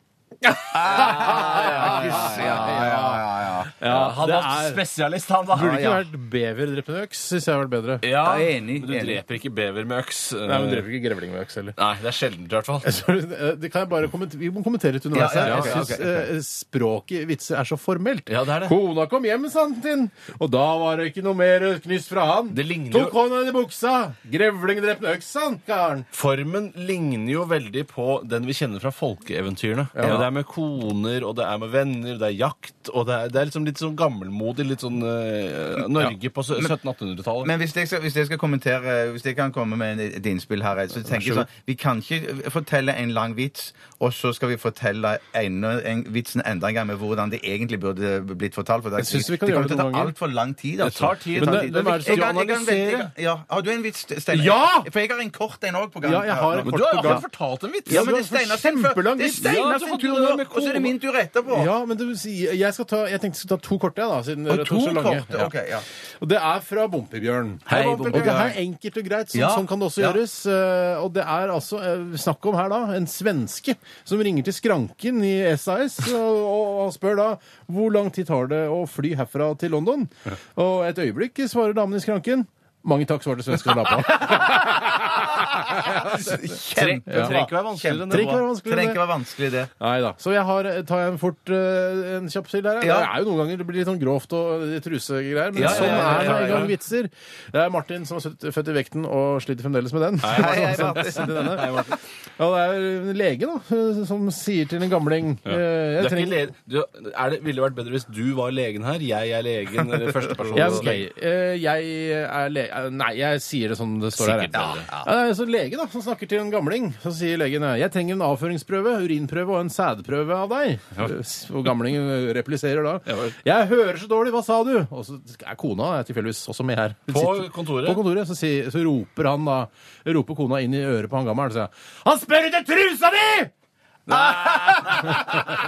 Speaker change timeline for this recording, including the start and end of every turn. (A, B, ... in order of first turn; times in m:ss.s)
0:00.7-0:03.7 A
0:00.8-0:03.2 B
0:00.9-0:05.8 C
0:03.8-0:04.8 B
0:05.5-0:08.0 B
0:05.5-0:06.0 A
0:08.0-0:10.8 C
0:08.2-0:09.2 A
0:10.4-0:11.8 B
0:11.8-0:12.9 C
0:12.8-0:26.1 B
0:15.1-0:16.3 A
0:15.4-0:16.0 C
0:18.3-0:18.7 C
0:22.5-0:23.2 C
0:26.1-0:37.5 C
0:30.0-0:30.2 B
0:30.0-0:30.3 A
0:36.0-0:36.7 A
0:37.4-0:57.2 A
0:41.1-0:41.4 B
0:49.0-0:50.1 B
0:50.8-0:53.1 C
0:51.4-0:52.4 B
0:54.3-0:54.9 B
0:56.0-0:57.2 B
0:56.6-0:58.1 C
0:57.9-1:01.7 A
0:57.9-0:59.5 B
0:59.4-1:00.9 C
1:01.5-1:05.5 B
1:04.5-1:05.8 A
1:06.2-1:26.5 B
1:07.7-1:08.6 A
1:07.7-1:08.4 C
1:09.3-1:10.2 A
1:25.6-1:29.7 A
1:26.6-1:28.4 C
1:27.1-1:27.3 B
1:28.1-1:29.0 B
1:29.8-1:41.8 B
1:32.8-1:33.1 A
1:35.5-1:36.7 A
1:35.6-1:36.7 C
1:40.2-1:42.0 C
1:40.3-1:41.5 A
1:42.4-1:46.5 B
1:45.5-1:51.0 C
1:50.3-1:50.9 A
1:50.5-2:13.5 B
1:54.1-1:54.9 C
1:54.5-1:55.1 A
2:03.0-2:03.3 C
2:07.1-2:08.0 C
2:14.1-2:15.5 C